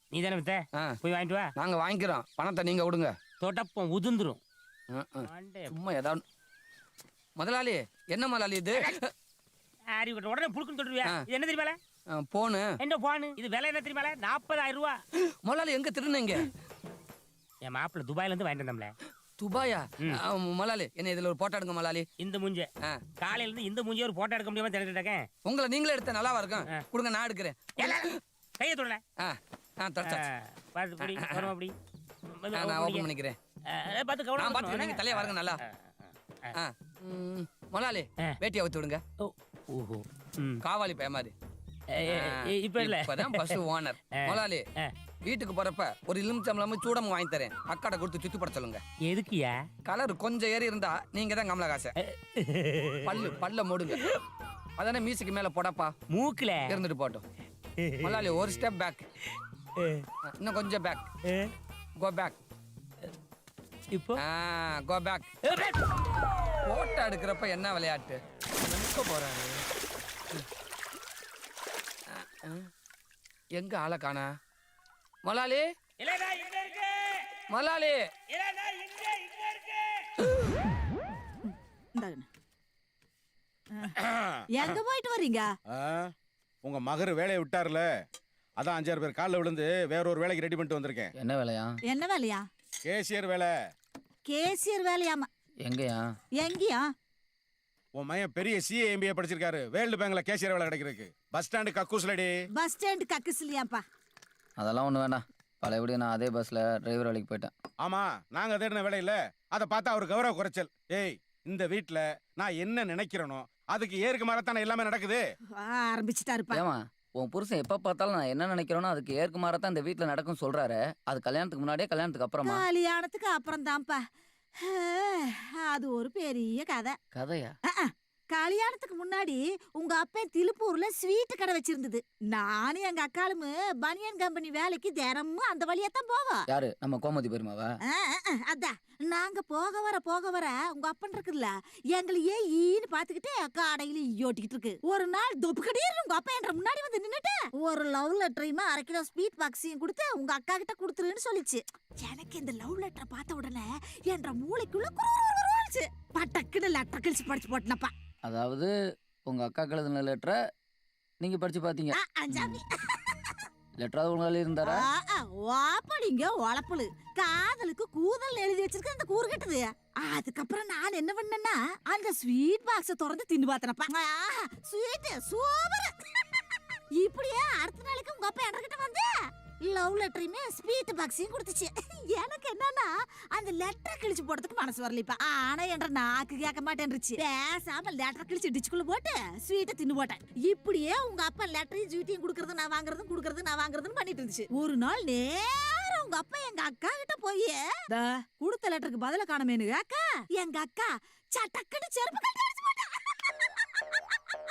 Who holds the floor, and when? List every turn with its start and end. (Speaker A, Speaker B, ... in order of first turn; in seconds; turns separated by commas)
Speaker A: 0.1-1.5, Speaker B: 1.6-3.1, Speaker A: 3.4-4.4, Speaker B: 4.9-6.2, Speaker A: 5.2-5.7, Speaker B: 7.4-9.1, Speaker A: 9.9-11.8, Speaker B: 12.1-12.8, Speaker A: 12.8-15.0, Speaker B: 15.4-16.5, Speaker A: 17.6-18.9, Speaker B: 19.4-22.1, Speaker A: 22.2-22.7, Speaker A: 23.2-25.3, Speaker B: 25.4-28.1, Speaker A: 27.8-29.0, Speaker B: 29.2-30.2, Speaker A: 30.0-31.8, Speaker B: 31.0-31.5, Speaker A: 32.4-33.1, Speaker B: 32.5-33.4, Speaker A: 33.7-36.6, Speaker B: 34.4-35.6, Speaker B: 36.5-39.0, Speaker A: 39.2-40.6, Speaker B: 40.6-41.3, Speaker A: 42.0-43.6, Speaker B: 42.1-44.6, Speaker A: 44.3-44.9, Speaker B: 45.2-48.8, Speaker A: 49.0-49.6, Speaker B: 49.9-51.9, Speaker A: 52.3-53.4, Speaker B: 53.0-54.0, Speaker B: 54.8-55.9, Speaker A: 56.1-56.8, Speaker B: 56.7-57.2, Speaker A: 57.8-58.4, Speaker B: 58.0-59.0, Speaker A: 59.8-60.0, Speaker B: 60.3-61.0, Speaker B: 62.0-62.4, Speaker A: 63.9-64.2, Speaker B: 64.2-65.3, Speaker A: 65.5-65.8, Speaker B: 66.7-69.6, Speaker B: 72.1-72.7, Speaker B: 73.6-74.3, Speaker B: 75.3-75.7, Speaker A: 76.0-77.2, Speaker B: 77.5-78.0, Speaker A: 78.3-79.9, Speaker C: 81.5-82.3, Speaker D: 84.0-84.3, Speaker C: 84.5-85.5, Speaker D: 85.7-86.1, Speaker D: 86.6-87.9, Speaker D: 88.6-91.1, Speaker E: 91.2-91.8, Speaker C: 91.9-92.4, Speaker D: 92.9-93.5, Speaker C: 94.3-95.3, Speaker E: 95.7-96.1, Speaker C: 96.4-96.8, Speaker D: 98.0-102.3, Speaker C: 102.6-103.8, Speaker E: 104.6-107.5, Speaker D: 107.8-115.2, Speaker C: 115.6-116.6, Speaker E: 116.5-122.6, Speaker C: 122.5-124.0, Speaker C: 124.6-127.0, Speaker E: 127.1-127.6, Speaker C: 127.7-136.4, Speaker E: 136.5-137.7, Speaker C: 137.9-157.9, Speaker E: 158.2-158.7, Speaker E: 159.3-160.4, Speaker E: 161.2-162.6, Speaker C: 161.9-163.3, Speaker E: 163.8-164.8, Speaker C: 164.6-176.4, Speaker C: 177.0-179.1, Speaker C: 179.7-204.3